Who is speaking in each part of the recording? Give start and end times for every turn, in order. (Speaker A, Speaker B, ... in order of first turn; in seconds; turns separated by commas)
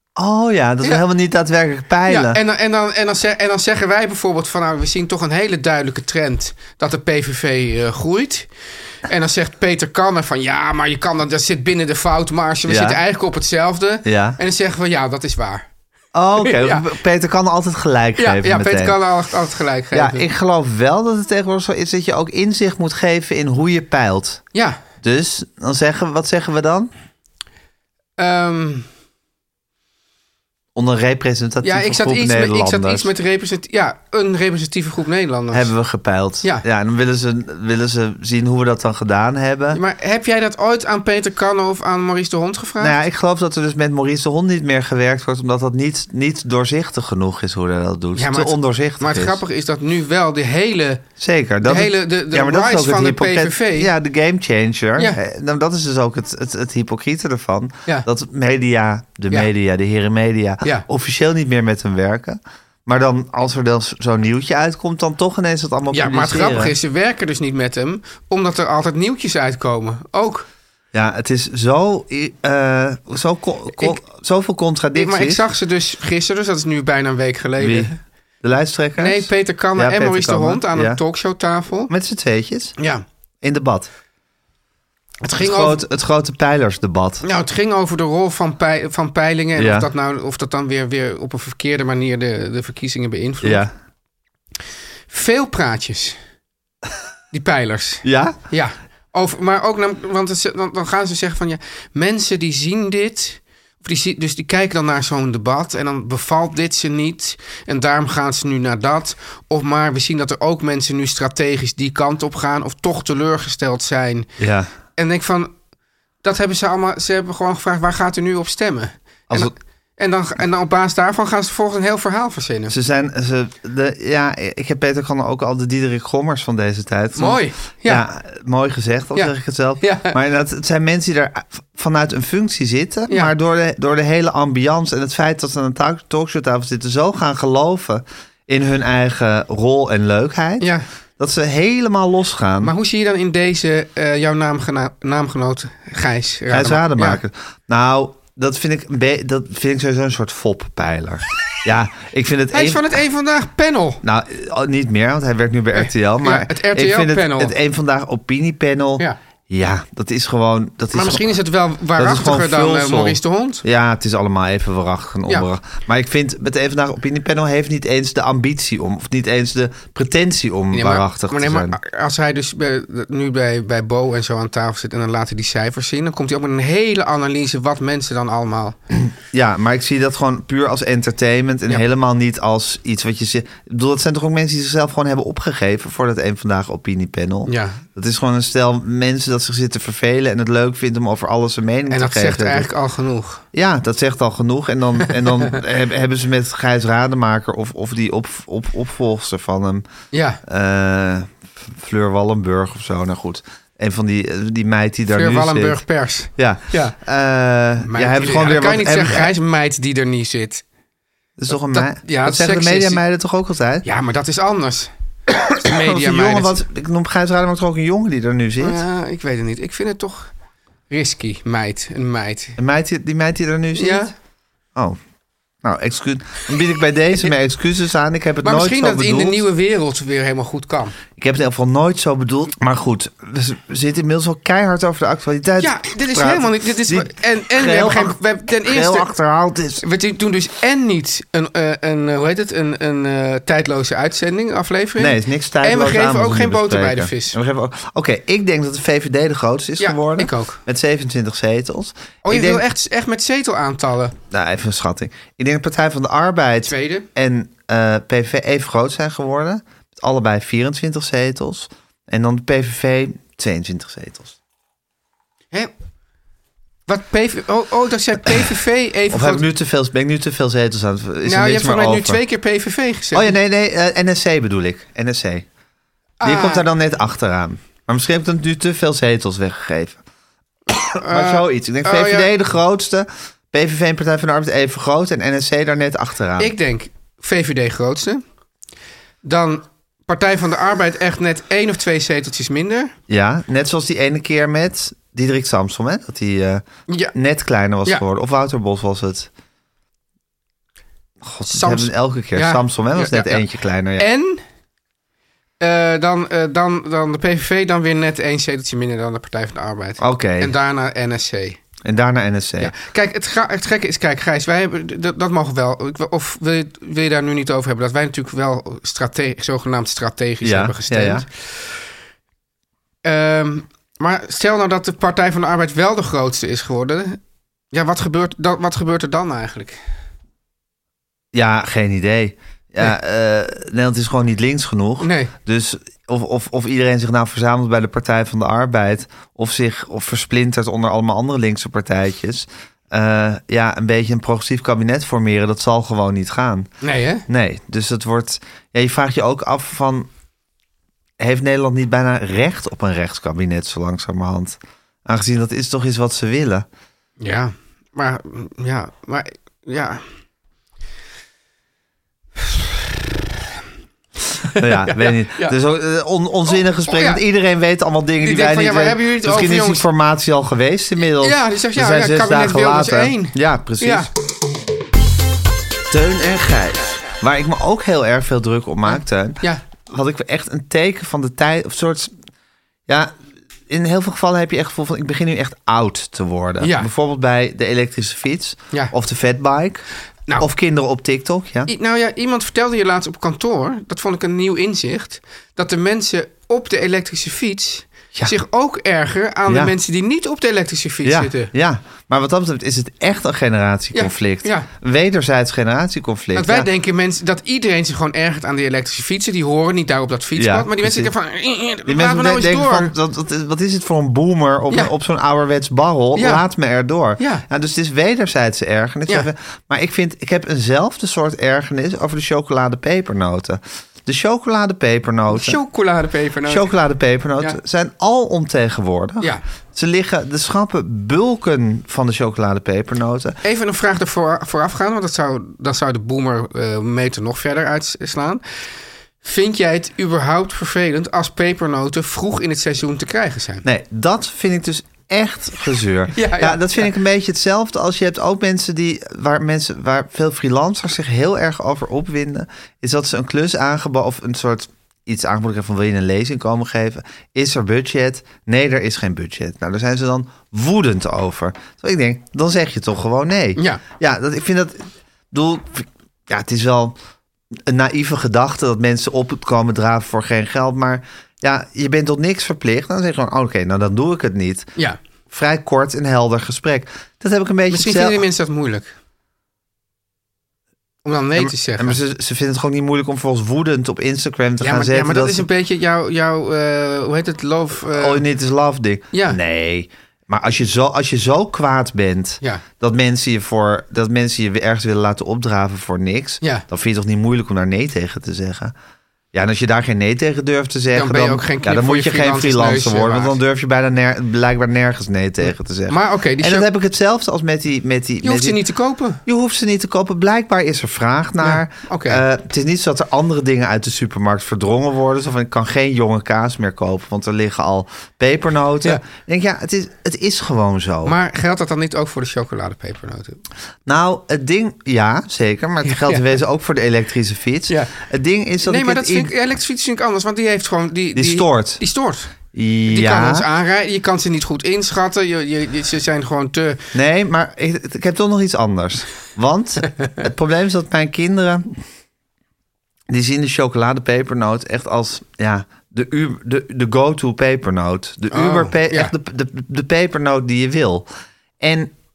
Speaker A: 0.2-2.4, Speaker B: 2.1-8.5, Speaker B: 9.0-15.6, Speaker A: 12.7-13.0, Speaker A: 14.0-14.4, Speaker A: 16.1-19.0, Speaker B: 16.4-16.9, Speaker B: 18.2-20.2, Speaker A: 19.9-24.4, Speaker B: 24.5-24.8, Speaker A: 25.0-26.9, Speaker B: 28.2-28.9, Speaker A: 30.7-33.1, Speaker B: 31.6-35.7, Speaker A: 35.5-39.8, Speaker B: 39.7-43.0, Speaker A: 42.8-49.4, Speaker B: 48.1-51.0, Speaker A: 51.2-66.7, Speaker B: 51.6-53.9, Speaker B: 65.9-70.5, Speaker A: 70.9-75.4, Speaker B: 75.0-78.0, Speaker A: 77.6-77.9, Speaker A: 78.4-81.0, Speaker B: 79.0-81.9, Speaker A: 81.9-82.8, Speaker B: 82.8-83.0, Speaker A: 83.4-83.9, Speaker B: 85.2-85.8, Speaker A: 85.4-87.2, Speaker B: 87.2-93.6, Speaker A: 89.5-89.9, Speaker A: 93.4-93.7, Speaker B: 95.1-96.2, Speaker B: 97.3-114.3, Speaker A: 98.0-98.4, Speaker A: 114.4-114.7, Speaker B: 115.0-115.5, Speaker B: 116.2-122.7, Speaker A: 122.7-142.7, Speaker B: 127.2-128.0, Speaker B: 129.1-130.2, Speaker B: 140.6-140.8, Speaker B: 142.6-147.2, Speaker A: 146.5-152.9, Speaker B: 152.5-154.0, Speaker A: 154.0-161.3, Speaker B: 155.7-157.6, Speaker B: 160.9-163.6, Speaker A: 161.9-171.8, Speaker B: 170.7-178.8, Speaker A: 179.3-192.7, Speaker B: 187.5-187.8, Speaker B: 191.9-193.4, Speaker A: 193.5-199.8, Speaker B: 200.1-200.4, Speaker A: 200.4-205.8, Speaker B: 205.1-206.9, Speaker A: 206.4-209.3, Speaker B: 207.8-210.6, Speaker A: 211.4-213.8, Speaker B: 211.5-213.0, Speaker B: 213.8-214.9, Speaker B: 215.4-216.6, Speaker A: 215.6-218.8, Speaker B: 218.6-220.3, Speaker B: 220.9-222.6, Speaker A: 222.6-224.1, Speaker B: 223.8-224.1, Speaker A: 225.6-229.4, Speaker B: 228.4-230.9, Speaker A: 231.2-239.8, Speaker B: 235.6-239.1, Speaker B: 239.8-247.4, Speaker A: 245.0-252.6, Speaker B: 249.8-250.6, Speaker B: 252.2-254.2, Speaker A: 254.3-264.4, Speaker B: 256.6-257.1, Speaker B: 266.9-269.4, Speaker A: 269.1-272.2, Speaker B: 271.2-273.3, Speaker A: 273.1-275.4, Speaker B: 276.2-276.7, Speaker A: 276.2-280.0, Speaker A: 280.7-286.5, Speaker B: 281.0-282.3, Speaker B: 286.4-288.2, Speaker B: 289.2-292.9, Speaker A: 293.1-299.3, Speaker B: 296.9-297.1, Speaker A: 301.2-304.1, Speaker B: 301.5-303.4, Speaker B: 304.0-304.4, Speaker B: 305.6-311.6, Speaker A: 310.0-310.5, Speaker A: 311.8-312.7, Speaker B: 312.6-321.5, Speaker A: 320.4-321.3, Speaker B: 323.0-327.2, Speaker B: 327.7-329.8, Speaker A: 331.3-346.7, Speaker B: 335.0-335.3, Speaker B: 346.8-347.2, Speaker A: 347.3-350.1, Speaker A: 351.2-356.6, Speaker B: 357.2-360.0, Speaker B: 362.5-362.9, Speaker B: 364.4-365.6, Speaker A: 364.6-374.1, Speaker B: 366.5-367.2, Speaker B: 368.2-369.8, Speaker B: 371.1-374.1, Speaker A: 375.9-382.1, Speaker B: 378.9-379.6, Speaker A: 383.7-389.8, Speaker B: 386.6-386.9, Speaker A: 390.4-391.7, Speaker B: 391.7-401.5, Speaker A: 399.5-399.7, Speaker A: 401.0-406.7, Speaker B: 403.9-404.7, Speaker B: 406.3-412.9, Speaker A: 410.4-411.1, Speaker A: 411.9-425.6, Speaker B: 416.1-416.4, Speaker B: 417.2-417.4, Speaker B: 425.3-426.7, Speaker A: 426.4-433.4, Speaker B: 433.4-438.4, Speaker B: 439.2-443.6, Speaker A: 443.6-466.9, Speaker B: 446.1-446.9, Speaker B: 463.6-463.8, Speaker A: 467.7-474.7, Speaker A: 475.3-478.2, Speaker B: 477.7-478.9, Speaker B: 481.0-482.0, Speaker A: 481.4-485.4, Speaker B: 484.6-488.2, Speaker A: 487.9-498.7, Speaker B: 489.1-489.4, Speaker A: 499.3-508.6, Speaker B: 500.9-503.4, Speaker B: 505.4-506.7, Speaker B: 508.2-509.2, Speaker A: 509.2-521.1, Speaker B: 511.4-512.2, Speaker B: 521.0-523.4, Speaker A: 523.9-529.3, Speaker B: 525.8-526.3, Speaker B: 528.6-532.3, Speaker A: 531.1-531.8, Speaker A: 532.5-533.5, Speaker B: 532.9-536.8, Speaker A: 536.9-541.8, Speaker A: 543.1-551.1, Speaker B: 548.3-549.1, Speaker A: 551.6-551.9